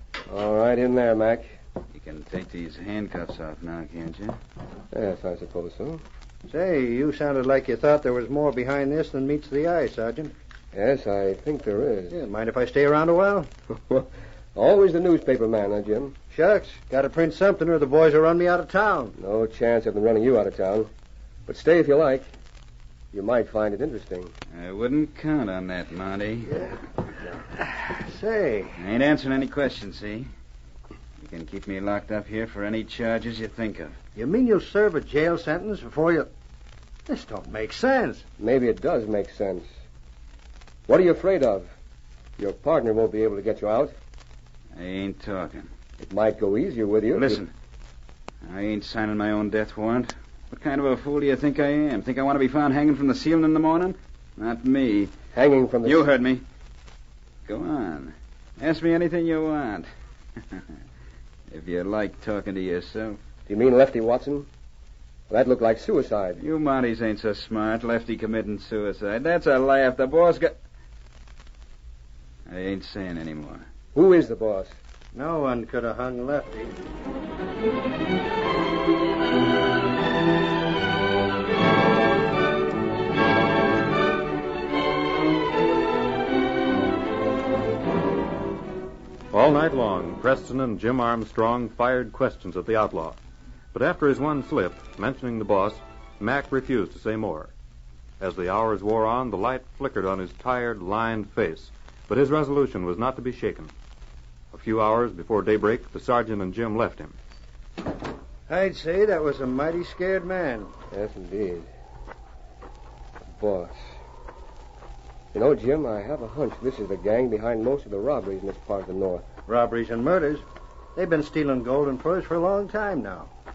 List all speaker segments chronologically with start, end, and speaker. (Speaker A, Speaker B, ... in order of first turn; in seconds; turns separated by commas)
Speaker A: 0.3-1.6, Speaker B: 1.9-4.4, Speaker A: 4.9-6.0, Speaker C: 6.5-10.3, Speaker A: 10.7-12.2, Speaker C: 12.1-13.5, Speaker A: 13.9-16.1, Speaker C: 16.3-19.1, Speaker A: 19.2-20.9, Speaker A: 21.5-22.3, Speaker A: 23.1-24.3, Speaker B: 24.5-26.6, Speaker C: 26.7-28.8, Speaker B: 28.8-30.3, Speaker B: 31.2-34.0, Speaker C: 34.2-36.3, Speaker C: 37.1-38.2, Speaker A: 38.4-39.7, Speaker A: 40.9-41.7, Speaker A: 42.4-43.9, Speaker B: 44.8-45.7, Speaker A: 46.0-47.4, Speaker B: 47.1-47.5, Speaker B: 48.4-55.1, Speaker A: 55.3-56.1, Speaker B: 55.8-56.4, Speaker B: 57.5-59.9, Speaker B: 61.5-63.2, Speaker A: 63.5-64.5, Speaker A: 65.3-66.4, Speaker B: 66.4-70.6, Speaker B: 72.5-73.6, Speaker A: 73.9-74.7, Speaker C: 75.1-76.8, Speaker D: 89.3-93.2, Speaker D: 93.7-97.5, Speaker D: 98.2-103.7, Speaker D: 104.5-107.2, Speaker C: 108.5-110.7, Speaker A: 110.9-111.7, Speaker A: 113.4-113.9, Speaker A: 115.3-119.3, Speaker C: 119.5-120.4, Speaker C: 121.0-123.3